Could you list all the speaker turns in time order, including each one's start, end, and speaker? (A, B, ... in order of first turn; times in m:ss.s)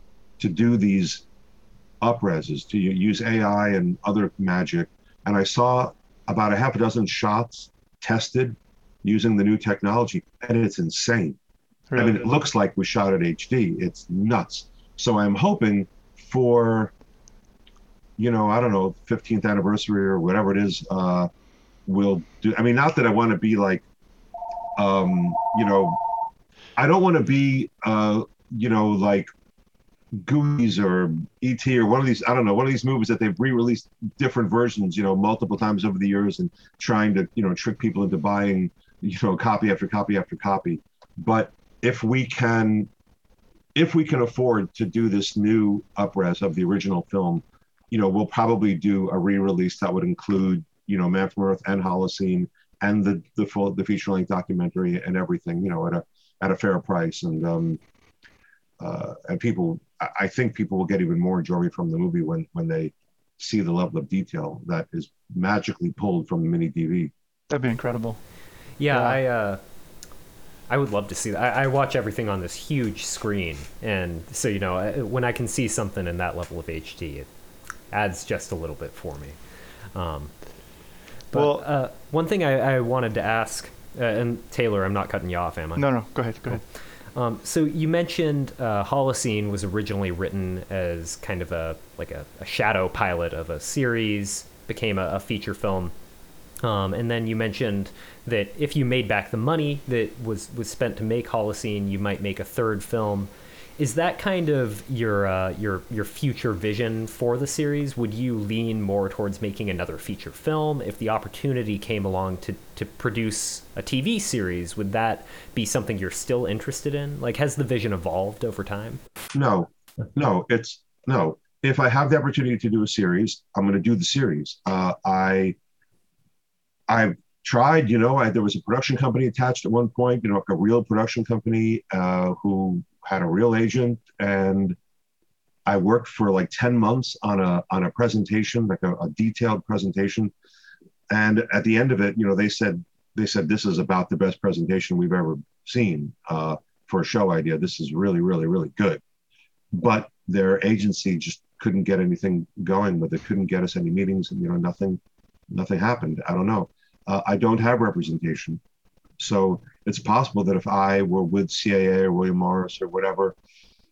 0:00.4-0:01.2 A
0:02.0-0:11.4 A
0:11.9-0:12.2 B
0:11.9-0:16.9 A
0:18.2-0:21.3 A
0:21.8-0:23.8 A
0:24.8-0:26.0 A
0:26.8-0:29.3 A
0:30.1-0:42.9 A
0:43.7-0:57.8 A
0:58.8-1:07.1 A
1:07.5-1:08.2 B
1:08.8-1:09.6 C
1:08.9-1:09.2 B
1:10.7-1:17.3 C
1:17.9-1:19.4 C
1:19.9-1:20.3 C
1:21.3-1:26.6 C
1:21.3-1:21.6 B
1:25.8-1:26.6 B
1:27.1-1:35.9 C
1:36.6-1:59.0 C
1:59.3-2:05.6 A
2:06.9-2:14.8 A
2:15.6-2:20.3 A
2:21.1-2:29.0 A
2:29.7-2:35.0 A
2:35.5-2:38.6 A
2:39.2-2:43.4 A